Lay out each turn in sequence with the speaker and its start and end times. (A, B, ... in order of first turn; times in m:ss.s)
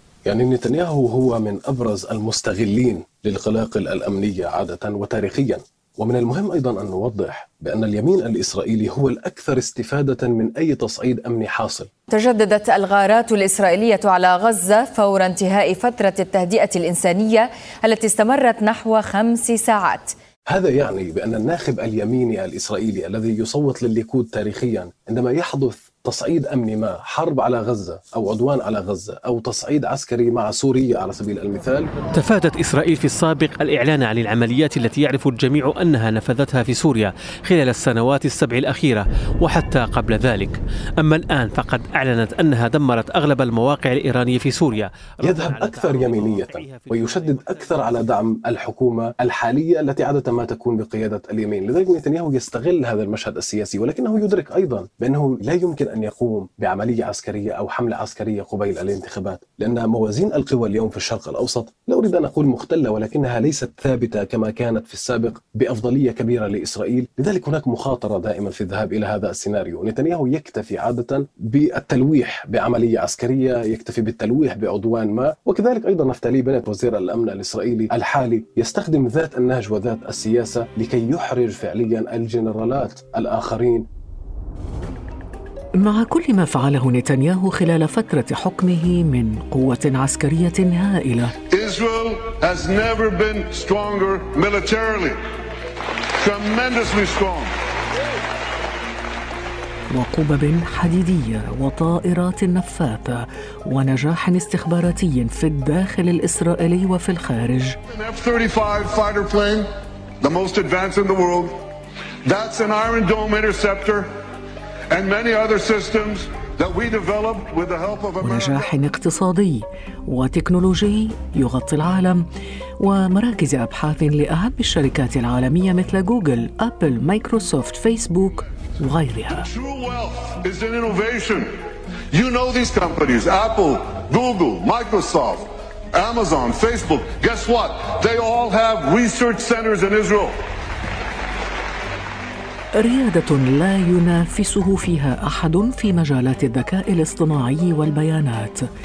0:00.2-0:11.9 A
0:12.1-0:20.1 B
0:20.5-0:31.9 A
0:32.2-0:47.9 C
0:45.2-1:23.8 A
1:25.8-1:31.3 D
1:31.5-1:35.2 E
1:36.2-1:37.5 E
1:39.9-1:47.8 D
1:47.9-1:49.6 E
1:50.2-1:51.6 E
1:52.2-1:54.1 E
1:54.9-1:58.8 E
1:58.2-2:02.2 D
2:02.8-2:09.5 D
2:09.3-2:11.5 E
2:12.1-2:20.3 E
2:22.7-2:28.6 D